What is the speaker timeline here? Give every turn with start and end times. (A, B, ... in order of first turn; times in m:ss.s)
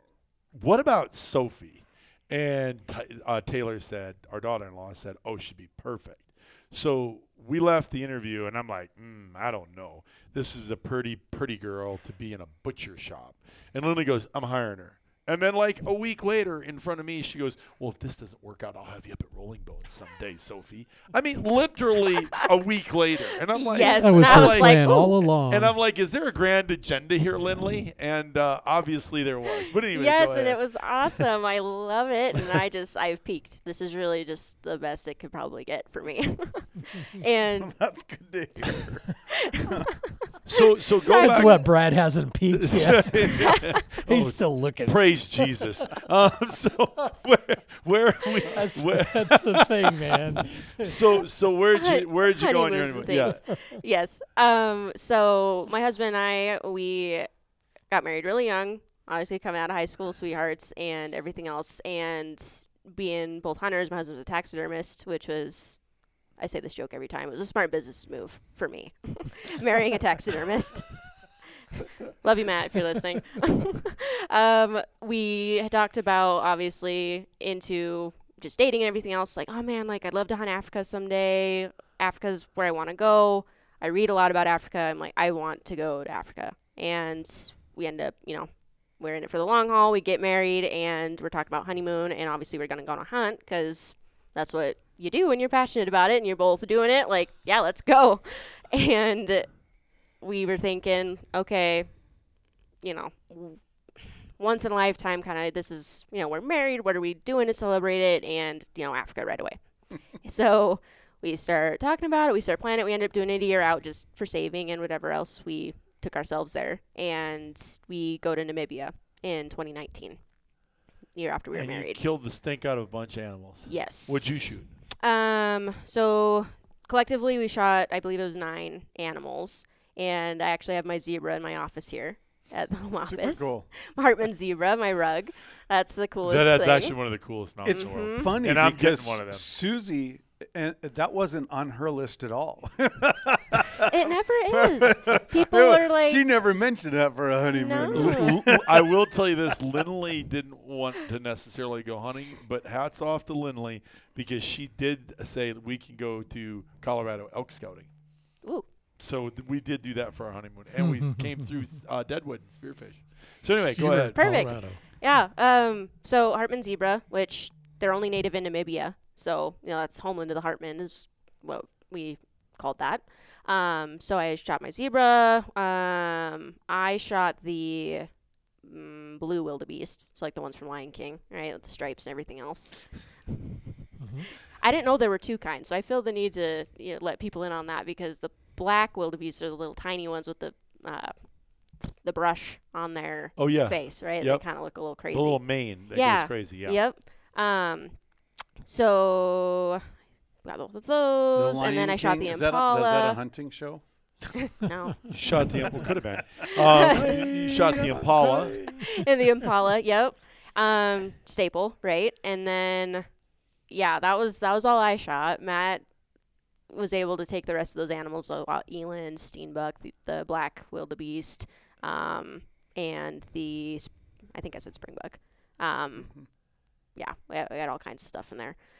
0:00.5-0:30.6 A
0:23.5-0:25.2 B
0:24.0-0:25.7 C
0:29.9-0:37.7 B
0:37.6-0:39.0 D
0:39.3-0:39.9 B
0:40.4-0:41.7 A
0:41.0-0:41.6 B
0:41.1-0:45.6 C
0:42.5-0:53.5 A
0:48.5-0:51.2 C
0:51.7-0:57.3 B
0:57.9-1:05.8 B
1:06.4-1:11.1 B
1:12.2-1:39.5 B
1:40.2-1:41.9 B
1:42.8-1:49.6 B
1:50.1-2:00.2 B
2:01.1-2:02.0 B
2:01.5-2:04.7 A
2:03.6-2:17.0 B
2:13.0-2:13.7 D
2:16.2-2:19.4 A
2:17.6-2:23.9 D
2:17.6-2:18.4 B
2:23.8-2:26.2 B
2:24.5-2:29.0 D
2:27.5-2:28.3 B
2:27.9-2:37.9 A
2:39.0-2:44.5 A
2:40.8-2:41.4 C
2:43.7-2:44.8 C
2:44.1-2:58.1 B
2:58.6-3:03.6 B
3:04.0-3:04.2 C
3:04.3-3:18.0 B
3:13.4-3:16.8 A
3:18.6-3:19.9 B
3:20.4-3:23.2 B
3:21.3-3:23.8 D
3:24.4-3:25.4 B
3:25.1-3:28.7 A
3:26.4-3:33.1 B
3:33.7-3:35.8 B
3:36.7-3:46.2 B
3:46.9-3:48.6 B